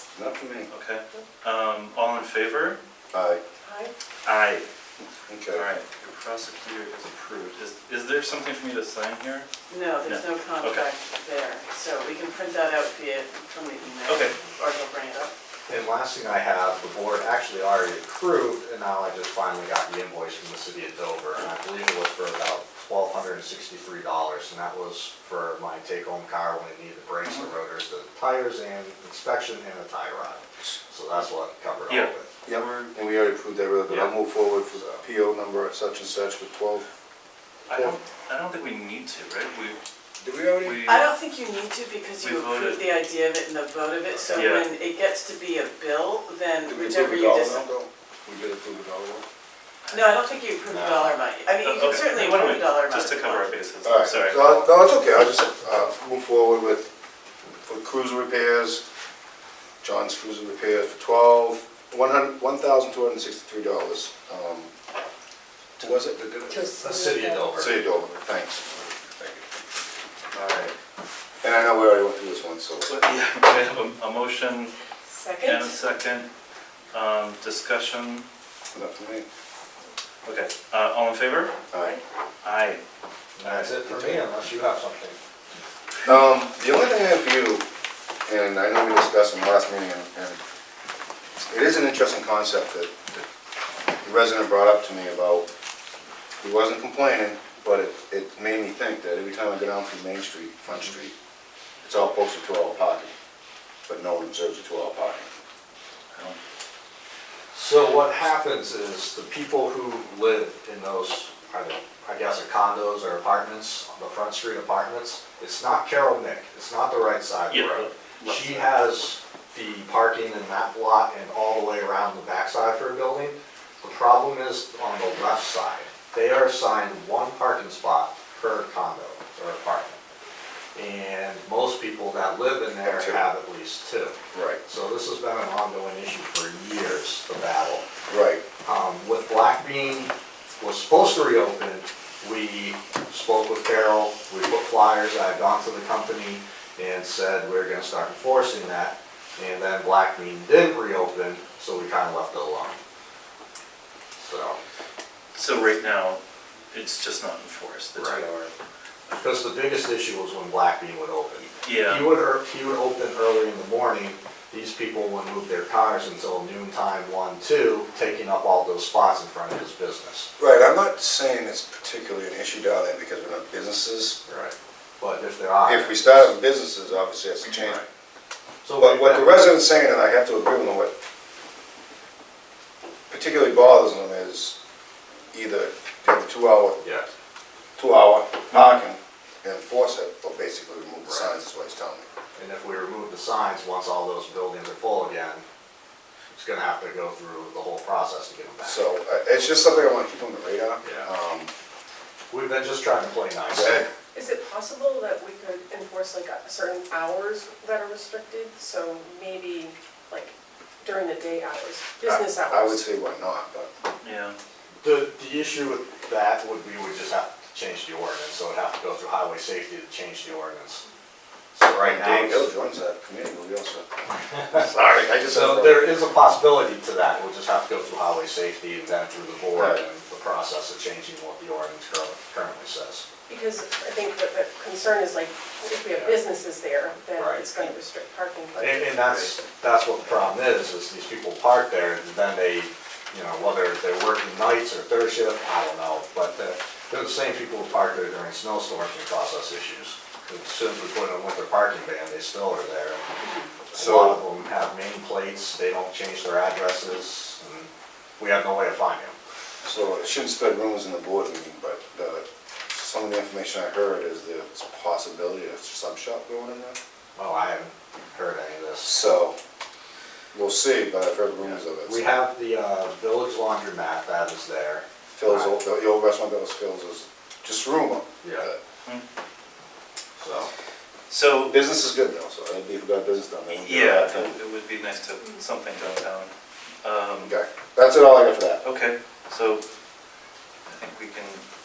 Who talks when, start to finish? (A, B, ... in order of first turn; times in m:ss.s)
0:00.1-0:00.7 A
0:00.7-0:02.8 B
0:03.1-0:03.4 A
0:03.6-0:03.9 C
0:04.2-0:04.6 B
0:05.3-0:05.6 A
0:05.5-0:09.5 B
0:09.7-0:15.3 D
0:10.0-0:10.8 B
0:14.1-0:14.3 B
0:15.7-0:32.3 E
0:32.4-0:36.8 A
0:33.9-0:35.0 E
0:37.7-0:39.8 B
0:40.2-0:41.0 A
0:40.6-0:41.1 B
0:40.8-0:47.6 D
0:42.2-0:42.9 B
0:44.1-0:44.4 E
0:44.3-0:44.7 B
0:46.6-0:49.2 A
0:49.9-0:53.5 D
0:50.7-0:51.1 E
0:51.6-0:54.7 B
0:53.8-0:56.9 A
0:57.6-0:58.8 A
0:59.8-1:04.7 A
1:05.8-1:06.6 A
1:06.5-1:07.4 C
1:06.7-1:07.8 E
1:07.5-1:09.4 A
1:10.3-1:10.7 A
1:11.4-1:13.0 A
1:12.8-1:14.7 B
1:15.1-1:15.8 C
1:15.4-1:16.3 B
1:16.9-1:18.2 B
1:18.7-1:19.2 A
1:20.2-1:21.5 B
1:21.7-1:22.0 A
1:22.4-1:22.8 B
1:23.4-1:25.2 E
1:23.4-1:24.2 B
1:26.0-1:27.6 A
1:28.2-1:30.4 A
1:31.4-1:33.2 A
1:34.0-1:35.5 A
1:36.4-1:41.1 A
1:41.8-1:43.1 A
1:43.9-1:45.3 A
1:46.1-1:46.4 B
1:47.5-2:10.0 E
1:57.5-1:58.7 B
2:10.7-2:17.9 E
2:12.8-2:13.2 A
2:14.3-2:14.6 A
2:18.1-2:18.4 A
2:18.6-2:32.8 E
2:34.2-2:34.6 E
2:35.3-2:36.2 B
2:36.7-2:38.5 B
2:37.9-2:38.2 E
2:39.1-2:50.3 E
2:41.6-2:42.1 B
2:50.4-2:54.2 A
2:54.2-2:56.3 E
2:55.7-2:57.8 A
2:57.5-2:57.8 E
2:58.6-2:59.4 E
2:58.8-3:00.9 A
3:03.1-3:04.6 A
3:05.3-3:06.8 A
3:06.8-3:07.1 E
3:07.8-3:12.0 A
3:11.1-3:11.3 E
3:12.4-3:15.4 E
3:16.3-3:18.8 E
3:18.6-3:21.5 A
3:20.8-3:21.1 E
3:22.3-3:23.9 E
3:23.6-3:23.8 A
3:24.1-3:32.9 C
3:32.0-3:33.7 A
3:34.0-3:34.4 B
3:34.8-3:40.8 E
3:41.5-3:42.5 E
3:41.8-3:43.8 A
3:44.5-3:45.9 A
3:45.2-3:53.0 E
3:49.5-3:49.8 A
3:53.3-3:59.0 C
3:55.9-3:56.2 E
3:57.2-3:57.4 E
3:58.6-4:13.1 E
4:13.2-4:13.5 D
4:13.7-4:19.2 E
4:13.7-4:14.2 A
4:19.6-4:26.8 A
4:27.2-4:29.0 E
4:28.8-4:29.4 A
4:30.3-4:32.1 A
4:31.4-4:35.5 E
4:35.1-4:38.6 A
4:40.2-4:40.5 E
4:41.1-4:41.6 B
4:41.5-4:44.4 A
4:43.6-4:46.3 B
4:46.8-4:47.3 B
4:47.2-4:48.6 A
4:48.6-4:49.6 B
4:50.7-4:51.4 B